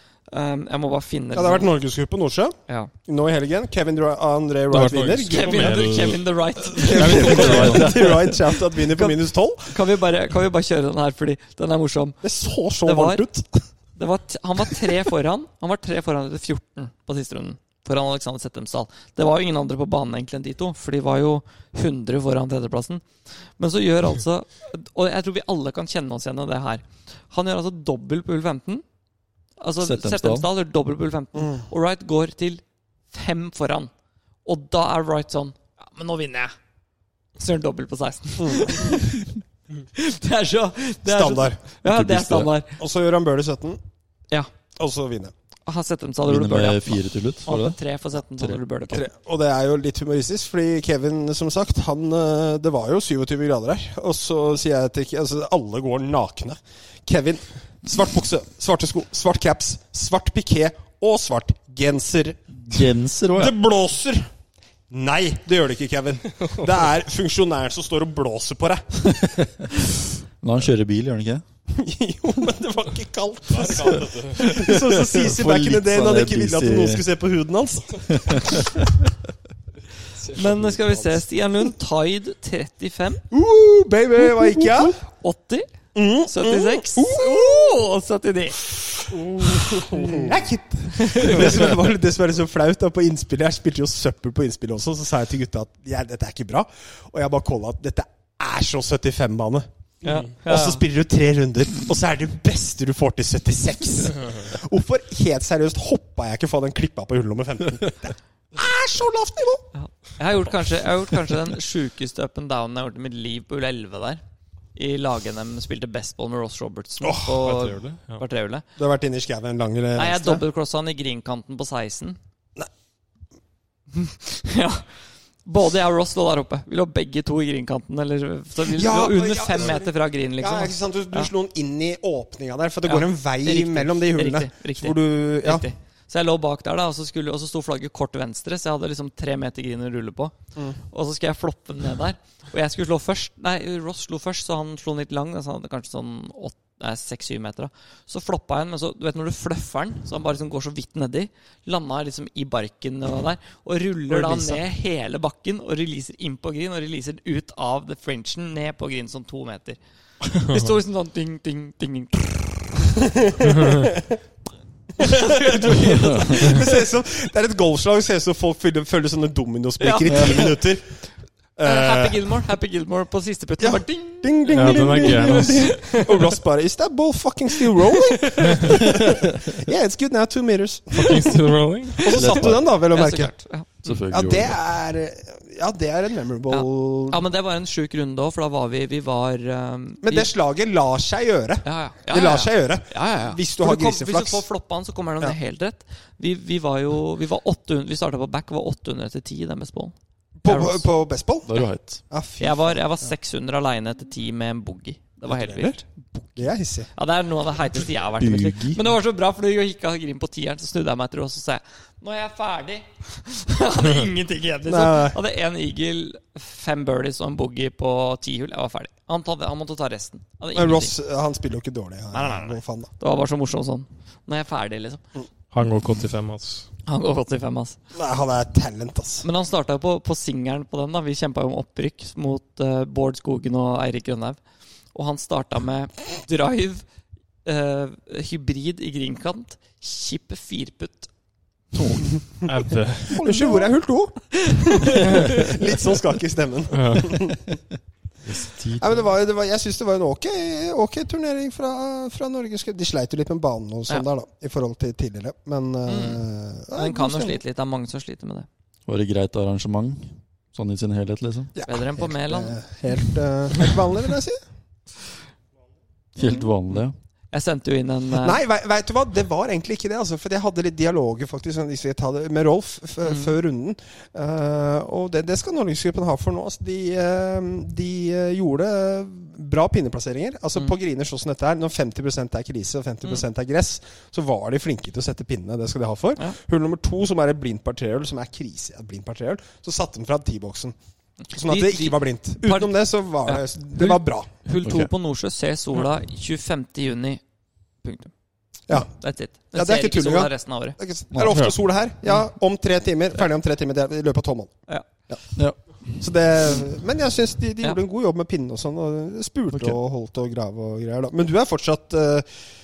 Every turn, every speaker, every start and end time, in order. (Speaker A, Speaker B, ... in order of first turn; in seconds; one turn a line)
Speaker A: 0.3-1.7
Speaker B: 1.3-6.0
Speaker C: 4.7-8.1
Speaker A: 5.3-7.9
Speaker B: 6.7-9.7
Speaker D: 6.9-8.4
Speaker A: 8.7-12.2
Speaker B: 12.2-13.6
Speaker A: 12.8-13.3
Speaker A: 14.0-23.1
Speaker A: 23.6-28.8
Speaker A: 29.6-33.9
Speaker D: 29.8-30.5
Speaker B: 31.4-31.6
Speaker A: 34.5-36.5
Speaker A: 37.4-39.4
Speaker B: 38.4-39.1
Speaker A: 39.9-42.8
Speaker B: 41.1-41.6
Speaker D: 41.8-42.5
Speaker B: 42.8-43.8
Speaker B: 44.8-45.3
Speaker A: 45.7-49.1
Speaker D: 46.2-47.8
Speaker B: 48.9-64.3
Speaker D: 62.6-63.5
Speaker B: 64.9-69.3
Speaker D: 69.2-69.8
Speaker D: 70.4-71.4
Speaker B: 71.7-78.7
Speaker C: 73.5-74.4
Speaker D: 74.4-77.0
Speaker D: 78.1-78.7
Speaker C: 80.2-81.0
Speaker A: 80.3-83.2
Speaker B: 83.3-85.0
Speaker A: 85.0-85.7
Speaker B: 86.0-87.8
Speaker A: 86.3-88.7
Speaker B: 89.1-99.7
Speaker A: 91.0-91.6
Speaker A: 100.0-100.8
Speaker B: 100.4-109.7
Speaker A: 109.7-114.2
Speaker A: 114.8-118.7
Speaker B: 117.0-117.5
Speaker C: 117.4-118.2
Speaker B: 118.8-120.4
Speaker A: 120.0-122.2
Speaker A: 123.9-124.8
Speaker A: 125.5-131.3
Speaker B: 128.6-135.7
Speaker A: 132.8-140.4
Speaker A: 140.9-159.8
Speaker B: 154.1-154.6
Speaker A: 160.3-163.0
Speaker B: 163.0-164.0
Speaker B: 165.0-170.9
Speaker A: 165.0-166.0
Speaker A: 169.8-170.5
Speaker D: 170.1-170.4
Speaker B: 171.6-172.2
Speaker A: 171.6-175.4
Speaker B: 173.6-181.4
Speaker C: 174.5-176.3
Speaker C: 178.4-178.8
Speaker C: 180.9-182.1
Speaker B: 182.0-183.3
Speaker D: 182.1-182.8
Speaker A: 182.2-184.0
Speaker D: 183.8-184.6
Speaker B: 184.1-187.2
Speaker A: 186.5-190.3
Speaker B: 190.0-194.4
Speaker A: 191.6-199.9
Speaker B: 200.4-202.8
Speaker A: 200.4-200.8
Speaker D: 201.5-202.0
Speaker A: 202.4-220.9
Speaker B: 205.3-205.8
Speaker B: 206.4-206.9
Speaker D: 208.2-208.8
Speaker B: 214.7-215.2
Speaker B: 220.6-222.9
Speaker A: 222.1-225.0
Speaker C: 225.5-226.7
Speaker A: 226.9-227.8
Speaker B: 227.9-229.3
Speaker A: 229.2-234.4
Speaker A: 234.9-236.8
Speaker A: 237.4-241.1
Speaker D: 241.7-242.0
Speaker C: 242.4-243.3
Speaker B: 243.1-247.6
Speaker A: 243.4-243.7
Speaker A: 244.5-245.2
Speaker C: 246.7-247.3
Speaker D: 248.3-249.0
Speaker B: 248.8-257.4
Speaker A: 255.9-256.2
Speaker A: 256.8-258.5
Speaker D: 258.9-261.5
Speaker B: 261.6-264.4
Speaker A: 261.6-262.6
Speaker D: 266.2-266.9
Speaker A: 267.3-268.4
Speaker B: 268.2-290.8
Speaker A: 273.1-273.3
Speaker A: 291.3-292.7
Speaker B: 291.3-294.3
Speaker A: 293.2-297.2
Speaker D: 294.6-294.9
Speaker A: 297.8-298.1
Speaker A: 298.7-300.8
Speaker B: 299.5-304.6
Speaker D: 301.1-301.4
Speaker C: 301.3-301.6
Speaker B: 306.0-312.3
Speaker D: 309.5-309.8